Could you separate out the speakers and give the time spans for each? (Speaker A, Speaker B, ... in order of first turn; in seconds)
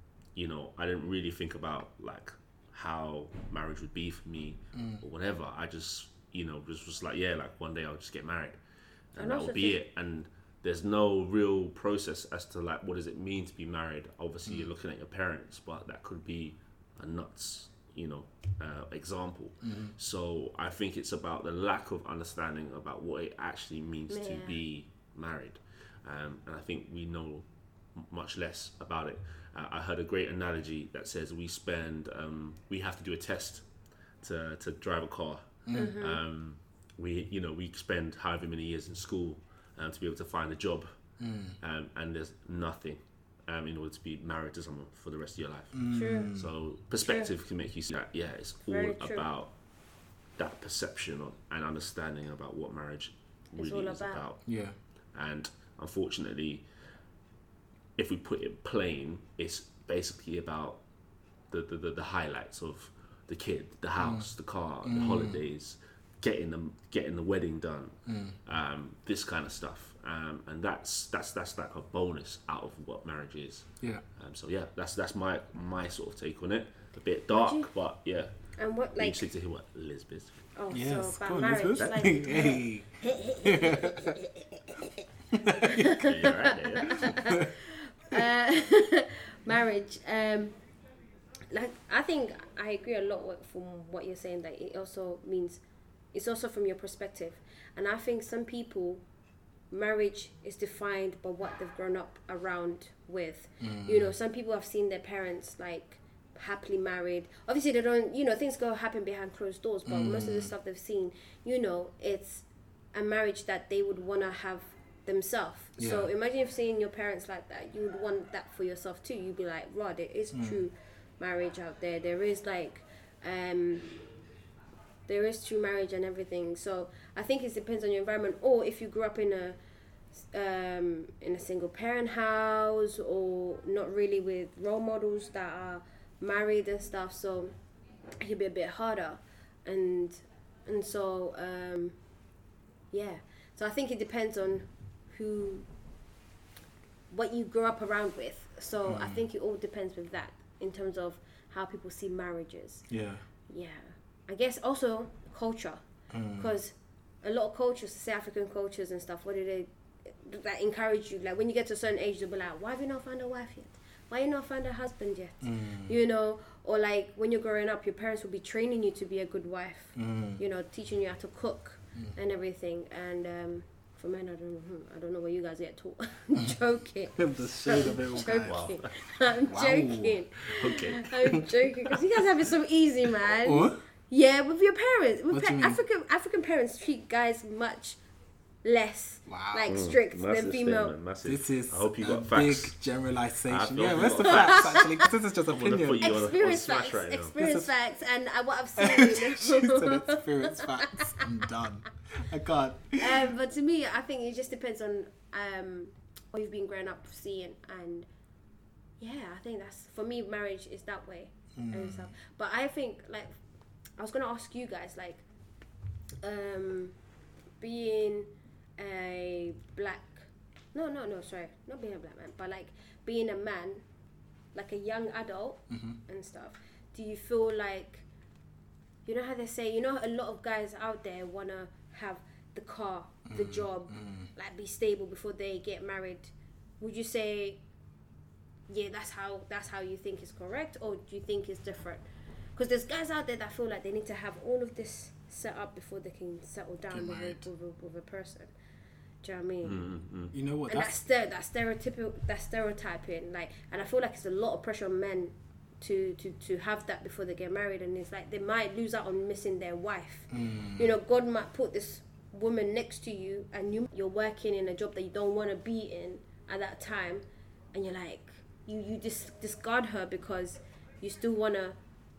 Speaker A: 0.3-8.6, 9.1-33.7, 34.2-40.9, 41.6-49.5, 50.4-54.5, 55.1-56.6, 58.0-60.8, 61.5-80.5, 81.8-82.1, 86.0-87.2, 178.4-179.0, 180.5-181.4, 189.7-192.8, 193.5-194.8, 195.5-197.3, 249.6-250.3
Speaker B: 4.7-5.0, 19.6-19.9, 35.7-36.0, 41.2-41.6, 45.7-46.5, 54.5-54.8, 64.0-64.3, 64.8-65.4, 68.1-68.4, 80.7-84.2, 85.3-86.3, 86.9-87.5, 103.6-104.2, 109.9-110.5, 115.8-116.1, 120.3-120.6, 148.8-149.2, 152.9-153.2, 156.1-156.5, 165.4-166.0, 169.9-170.4, 177.2-178.7, 179.5-180.3, 181.2-181.9, 183.4-183.8, 185.3-185.8, 189.3-189.8, 191.2-196.1, 197.4-197.7, 198.8-203.3, 211.6-212.1, 225.7-226.0, 233.3-234.3, 246.9-247.5, 250.3-250.9, 260.3-260.9
Speaker C: 9.2-9.8, 24.1-24.6, 35.7-36.2, 45.9-46.3, 47.0-47.3, 48.7-49.2, 53.6-54.2, 77.3-77.7, 78.6-79.2, 80.5-90.6, 91.5-95.6, 96.1-99.0, 99.7-124.0, 125.1-129.6, 130.2-137.6, 138.2-142.0, 142.9-145.7, 147.1-152.9, 153.5-155.8, 156.4-188.0, 188.6-190.9, 194.2-195.1, 196.0-201.2, 203.0-208.1, 209.0-213.4, 214.0-215.2, 216.2-217.0, 217.6-223.8, 224.5-228.1, 229.1-237.6, 238.7-242.0, 242.6-248.5, 249.2-249.9, 250.7-271.8